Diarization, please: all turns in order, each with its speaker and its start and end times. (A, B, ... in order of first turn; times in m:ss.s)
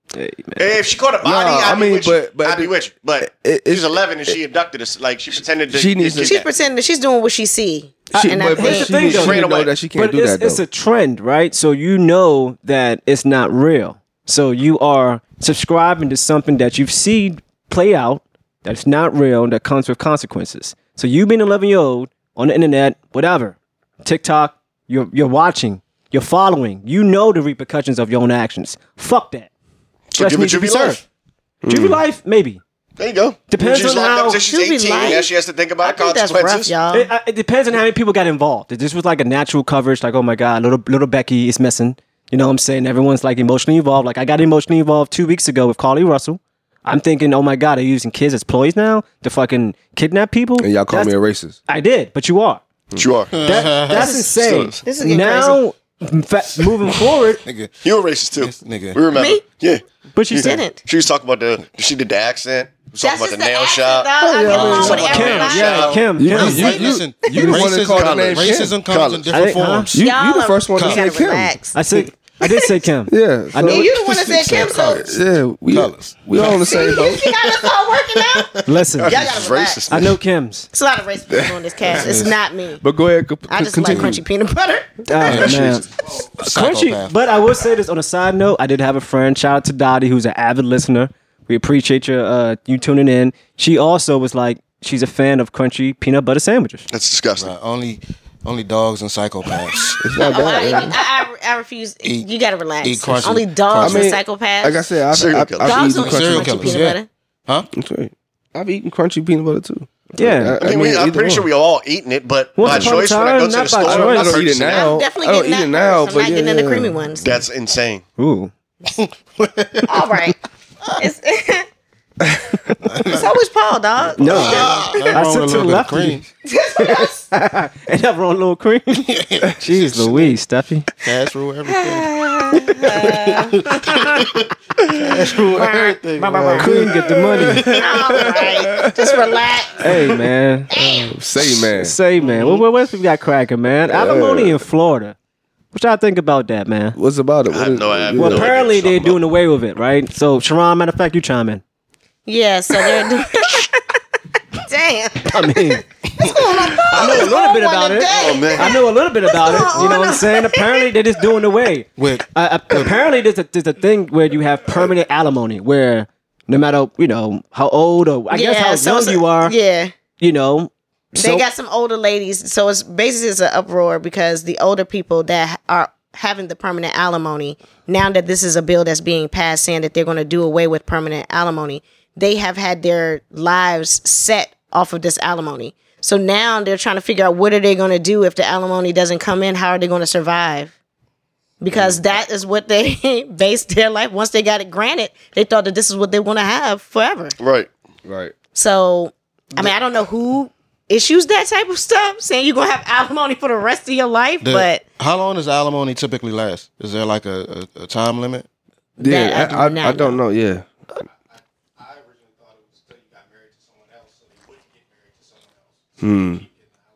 0:00.1-0:00.7 A
0:00.6-0:06.5 B
0:01.2-0:04.4 C
0:05.7-0:06.4 C
0:06.2-0:09.1 D
0:08.1-0:29.5 A
0:08.1-0:10.6 C
0:09.0-0:09.7 B
0:30.1-0:31.0 B
0:30.2-0:31.0 A
0:31.6-0:32.0 C
0:31.7-0:32.6 A
0:33.0-0:36.7 B
0:33.5-0:34.4 A
0:34.4-0:35.3 D
0:35.8-0:37.1 D
0:36.9-0:51.1 A
0:50.6-0:51.6 C
0:51.7-0:52.6 A
0:53.0-0:53.8 B
0:53.3-0:54.2 E
0:53.4-0:57.4 A
0:53.9-0:54.2 D
0:54.4-0:54.8 B
0:54.8-0:55.6 D
0:57.4-0:57.7 E
0:57.8-0:59.8 B
0:58.4-0:59.0 E
0:59.1-0:59.4 D
1:00.1-1:00.6 A
1:00.3-1:00.8 D
1:00.8-1:06.0 B
1:03.0-1:06.1 D
1:04.2-1:05.1 C
1:04.7-1:05.0 E
1:04.8-1:07.6 A
1:05.7-1:10.0 E
1:06.2-1:08.8 C
1:07.9-1:09.3 B
1:09.3-1:09.9 A
1:09.9-1:11.6 C
1:10.0-1:11.8 D
1:10.7-1:11.0 E
1:11.7-1:13.9 A
1:13.1-1:17.3 C
1:13.6-1:15.1 D
1:14.3-1:15.1 E
1:15.7-1:18.6 E
1:16.6-1:18.5 D
1:18.6-1:19.1 A
1:19.0-1:20.2 B
1:19.0-1:19.9 D
1:19.9-1:20.7 A
1:20.7-1:22.8 D
1:21.3-1:22.3 C
1:21.9-1:22.4 E
1:22.8-1:24.2 C
1:23.5-1:24.9 D
1:23.8-1:24.2 E
1:25.1-1:36.8 A
1:25.2-1:27.2 E
1:36.9-1:37.5 B
1:37.4-1:40.0 E
1:40.0-1:41.0 C
1:40.2-1:44.8 D
1:42.8-1:44.2 E
1:43.8-1:46.8 C
1:45.1-1:45.8 B
1:45.6-1:47.1 D
1:45.8-1:47.7 E
1:47.7-1:51.5 C
1:50.2-1:50.6 A
1:50.6-1:54.9 B
1:52.6-1:54.4 A
1:52.6-1:53.0 C
1:53.8-1:57.0 C
1:54.5-1:57.2 D
1:57.2-1:58.0 B
1:58.2-1:58.5 A
1:58.9-2:00.1 E
1:59.9-2:00.4 D
2:01.0-2:01.6 D
2:02.8-2:03.3 E
2:03.1-2:05.2 D
2:04.2-2:06.3 E
2:04.2-2:06.2 A
2:06.4-2:07.2 D
2:06.8-2:10.9 A
2:09.1-2:10.3 E
2:11.0-2:16.7 E
2:11.7-2:14.0 D
2:15.4-2:16.8 D
2:16.6-2:17.7 A
2:16.7-2:19.3 C
2:17.6-2:19.8 D
2:17.8-2:18.3 E
2:19.8-2:20.7 A
2:20.7-2:21.2 D
2:20.8-2:22.0 C
2:21.8-2:25.2 A
2:22.2-2:22.6 D
2:23.9-2:24.6 C
2:25.7-2:27.0 A
2:26.9-2:28.5 C
2:27.5-2:29.2 B
2:28.2-2:31.6 A
2:32.2-2:33.8 D
2:34.6-2:40.9 D
2:35.3-2:35.8 A
2:36.2-2:37.2 E
2:36.9-2:49.5 A
2:38.1-2:38.7 B
2:42.0-2:42.9 E
2:48.3-2:49.9 D
2:50.2-2:51.5 A
2:51.2-3:10.7 D
3:11.6-3:17.3 D
3:17.4-3:17.7 B
3:18.0-3:18.3 C
3:18.5-3:24.8 D
3:24.4-3:28.5 E
3:29.0-3:30.2 D
3:29.0-3:30.7 C
3:36.0-3:36.4 C